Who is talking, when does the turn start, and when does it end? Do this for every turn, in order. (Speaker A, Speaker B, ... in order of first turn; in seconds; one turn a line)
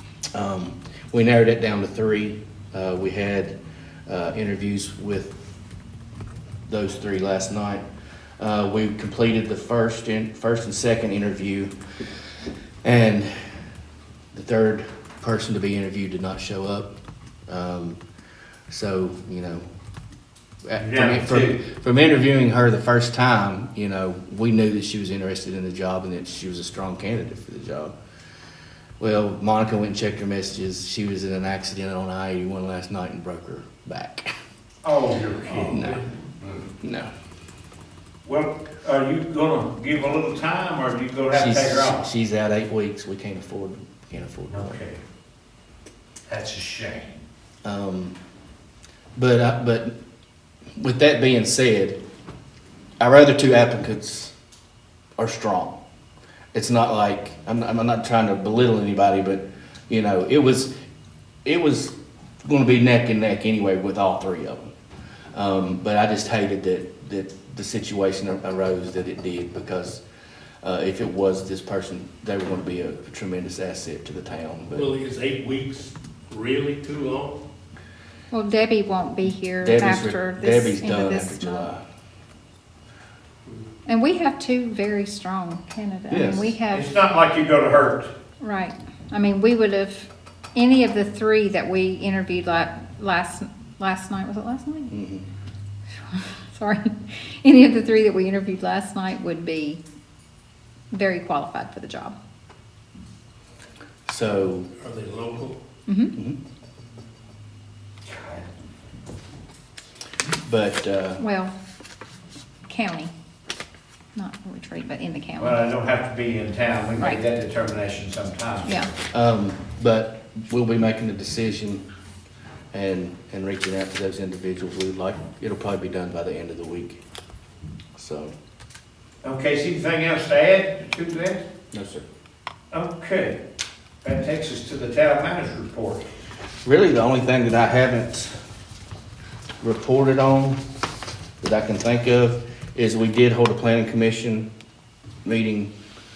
Speaker A: 0.3-3.5
Speaker A: 4.1-5.4
Speaker A: 6.7-7.8
Speaker A: 8.4-11.7
Speaker A: 12.8-13.6
Speaker A: 14.3-16.9
Speaker A: 17.5-18.0
Speaker A: 18.7-19.6
Speaker A: 20.6-27.9
Speaker B: 20.8-21.6
Speaker A: 29.0-34.3
Speaker B: 34.8-35.9
Speaker A: 35.6-36.0
Speaker A: 36.7-37.1
Speaker B: 38.2-42.0
Speaker A: 41.3-44.8
Speaker B: 44.5-45.0
Speaker B: 46.3-47.2
Speaker A: 47.6-48.1
Speaker A: 49.1-49.9
Speaker A: 50.8-52.0
Speaker A: 53.0-54.3
Speaker A: 55.2-55.8
Speaker A: 56.5-60.7
Speaker A: 61.4-64.7
Speaker A: 65.3-70.0
Speaker A: 70.6-74.9
Speaker C: 74.7-77.4
Speaker D: 78.3-81.7
Speaker A: 79.6-81.8
Speaker D: 83.8-86.9
Speaker A: 86.1-86.5
Speaker B: 86.7-88.1
Speaker D: 88.4-94.9
Speaker A: 94.9-95.2
Speaker D: 96.0-99.8
Speaker D: 100.9-102.1
Speaker A: 104.1-104.7
Speaker C: 104.8-105.6
Speaker D: 105.9-106.2
Speaker B: 108.0-108.5
Speaker A: 110.3-111.2
Speaker D: 111.2-111.5
Speaker D: 112.7-113.1
Speaker D: 114.1-115.6
Speaker B: 115.4-118.8
Speaker D: 118.7-118.9
Speaker A: 119.1-121.8
Speaker A: 122.7-127.0
Speaker A: 127.9-128.3
Speaker B: 129.2-131.5
Speaker A: 131.7-132.0
Speaker B: 132.7-133.4
Speaker B: 134.0-136.1
Speaker A: 136.6-138.3
Speaker A: 139.6-140.6
Speaker A: 141.4-144.5
Speaker A: 145.2-145.7